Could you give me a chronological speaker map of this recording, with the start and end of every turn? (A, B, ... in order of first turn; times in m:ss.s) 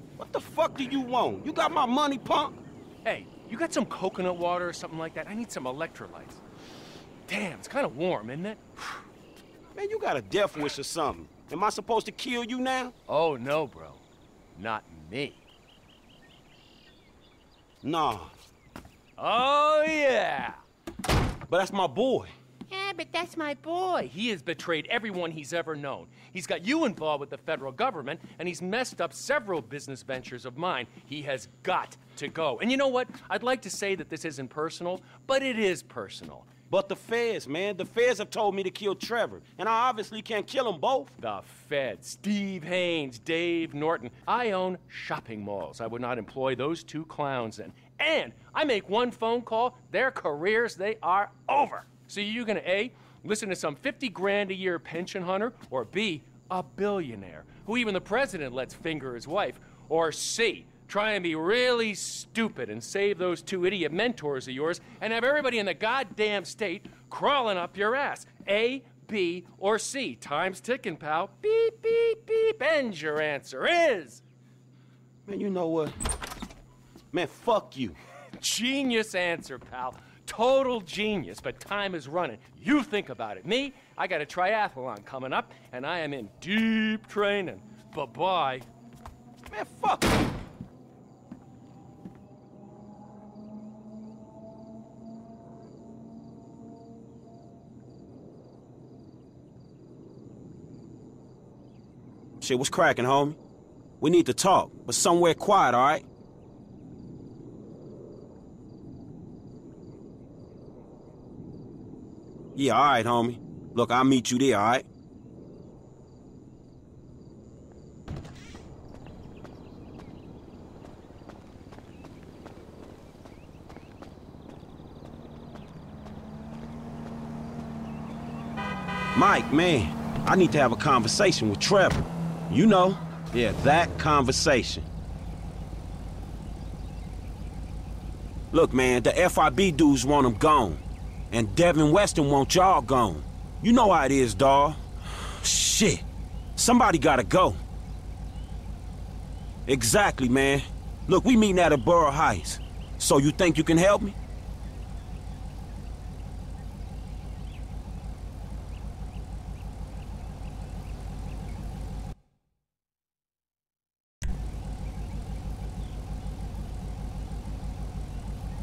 0:00.2-0:02.6 A
0:03.0-0:06.4 B
0:07.3-0:08.8 B
0:09.8-0:13.0 A
0:13.1-0:15.4 B
0:17.8-0:18.3 A
0:19.2-0:20.6 B
0:21.5-0:22.3 A
0:22.7-0:36.5 B
0:36.7-0:41.1 A
0:41.2-1:14.2 B
1:15.3-1:16.0 A
1:17.1-1:18.0 A
1:18.4-1:28.7 B
1:29.5-1:30.2 A
1:42.4-1:43.4 A
1:44.0-1:46.1 A
1:52.6-1:54.9 A
2:09.2-2:14.9 A
2:18.5-2:27.6 A
2:29.7-2:34.2 A